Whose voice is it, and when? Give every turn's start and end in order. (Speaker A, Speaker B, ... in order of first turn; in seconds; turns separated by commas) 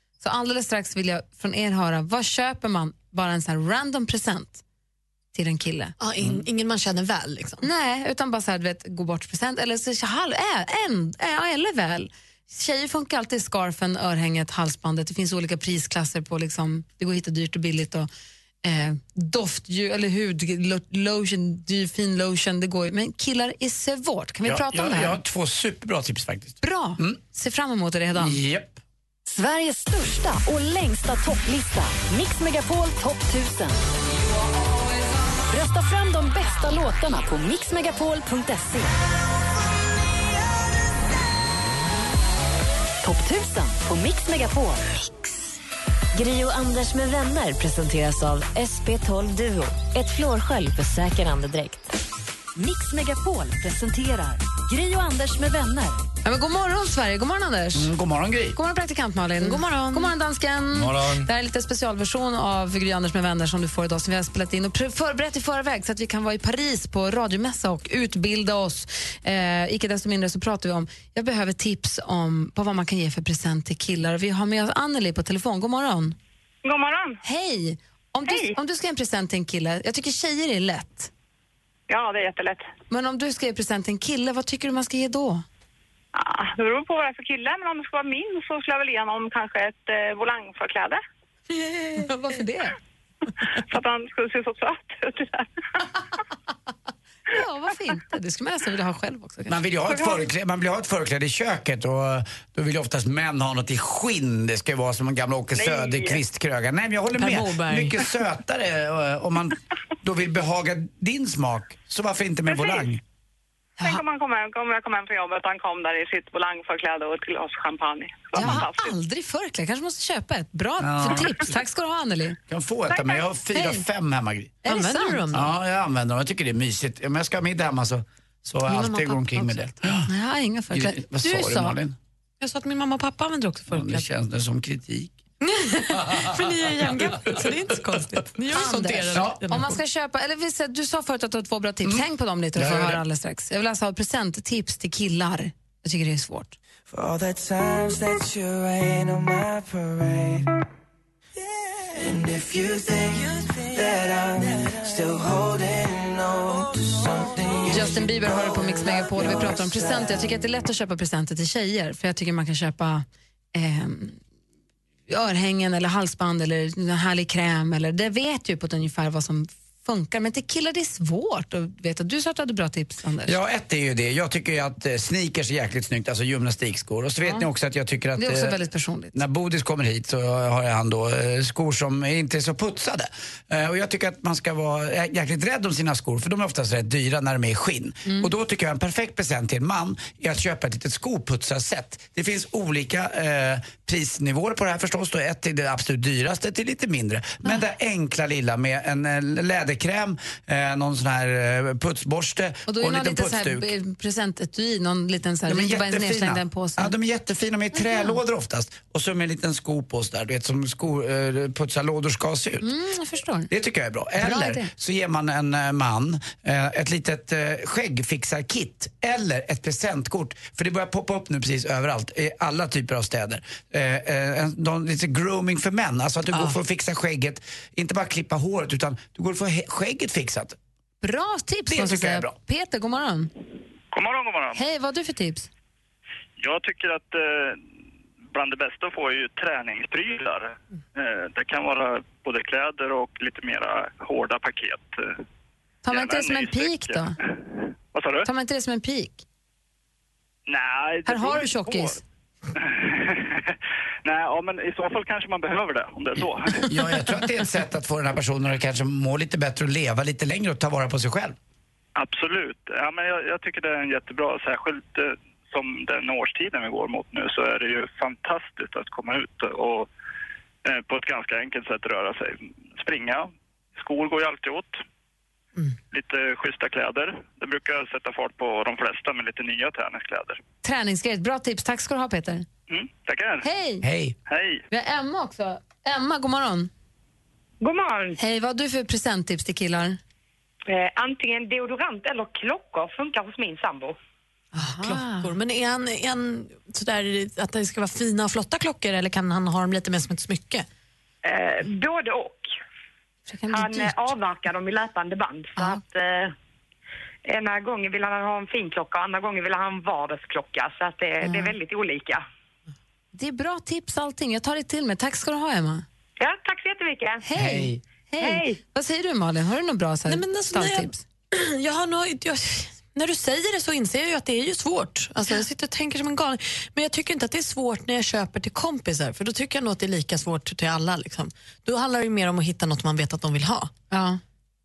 Speaker A: 0.2-4.6, Speaker A: 5.3-6.0, Speaker B: 6.0-7.7, Speaker A: 7.6-18.1, Speaker A: 18.6-25.2, Speaker C: 24.4-27.2, Speaker A: 26.6-28.4, Speaker C: 28.1-28.8, Speaker D: 29.3-33.8, Speaker D: 35.5-38.9, Speaker D: 43.0-45.4, Speaker D: 46.1-51.9, Speaker D: 52.6-56.0, Speaker A: 56.2-57.9, Speaker C: 57.8-58.6, Speaker A: 58.5-76.2, Speaker B: 59.4-60.1, Speaker C: 60.7-61.3, Speaker E: 76.6-77.2, Speaker A: 77.2-81.1, Speaker E: 78.3-78.6, Speaker E: 81.9-82.7, Speaker A: 82.9-85.4, Speaker E: 86.1-91.0, Speaker A: 91.5-92.8, Speaker E: 93.4-95.9, Speaker A: 97.3-99.6, Speaker C: 99.5-113.0, Speaker E: 99.9-100.2, Speaker E: 105.5-106.2, Speaker B: 107.2-108.0, Speaker E: 112.5-112.9, Speaker E: 113.8-119.0, Speaker A: 118.3-122.4, Speaker C: 118.4-118.7, Speaker C: 120.8-121.5, Speaker C: 122.5-124.6, Speaker E: 122.9-123.2, Speaker A: 123.5-123.8, Speaker B: 124.6-125.5, Speaker A: 124.7-125.2, Speaker C: 125.3-130.1, Speaker B: 128.7-129.8, Speaker A: 130.1-131.8, Speaker C: 130.7-132.0, Speaker B: 132.4-134.1, Speaker C: 133.7-135.2, Speaker B: 135.4-139.8, Speaker A: 138.5-146.6, Speaker C: 139.1-139.6, Speaker C: 141.8-143.0, Speaker F: 146.9-150.5, Speaker F: 151.9-158.1, Speaker A: 157.7-164.2, Speaker F: 159.1-159.8, Speaker A: 165.1-173.4, Speaker C: 173.2-178.6, Speaker A: 178.2-179.2, Speaker C: 179.1-203.7, Speaker A: 202.7-206.9, Speaker C: 205.5-212.7, Speaker A: 207.8-208.2, Speaker A: 212.6-213.5, Speaker C: 213.5-230.6, Speaker A: 214.2-214.7, Speaker A: 231.0-233.3, Speaker C: 231.7-232.3, Speaker G: 233.9-234.6, Speaker A: 234.5-235.5, Speaker G: 236.4-237.6, Speaker G: 238.3-245.1, Speaker A: 245.8-247.2, Speaker G: 245.9-247.1, Speaker G: 247.9-248.3, Speaker A: 248.2-249.2, Speaker G: 250.5-251.9, Speaker A: 251.1-252.0, Speaker G: 252.6-256.8, Speaker C: 256.6-261.4, Speaker G: 262.0-269.9, Speaker G: 270.7-274.8, Speaker G: 275.9-280.4, Speaker A: 280.6-282.5, Speaker G: 282.7-283.4, Speaker A: 283.4-283.9, Speaker C: 283.8-284.2, Speaker G: 284.3-284.6, Speaker A: 284.7-286.7, Speaker E: 287.6-288.2, Speaker A: 288.2-290.0, Speaker E: 290.7-294.0, Speaker A: 294.5-295.3, Speaker B: 294.6-300.7, Speaker E: 301.2-302.5, Speaker A: 303.3-304.1, Speaker E: 303.5-306.3, Speaker E: 307.2-312.2, Speaker A: 311.2-311.5, Speaker A: 313.1-315.9, Speaker E: 316.2-317.3, Speaker A: 317.2-321.0, Speaker C: 317.4-317.8, Speaker E: 318.2-318.6, Speaker B: 320.1-333.7, Speaker A: 333.9-334.2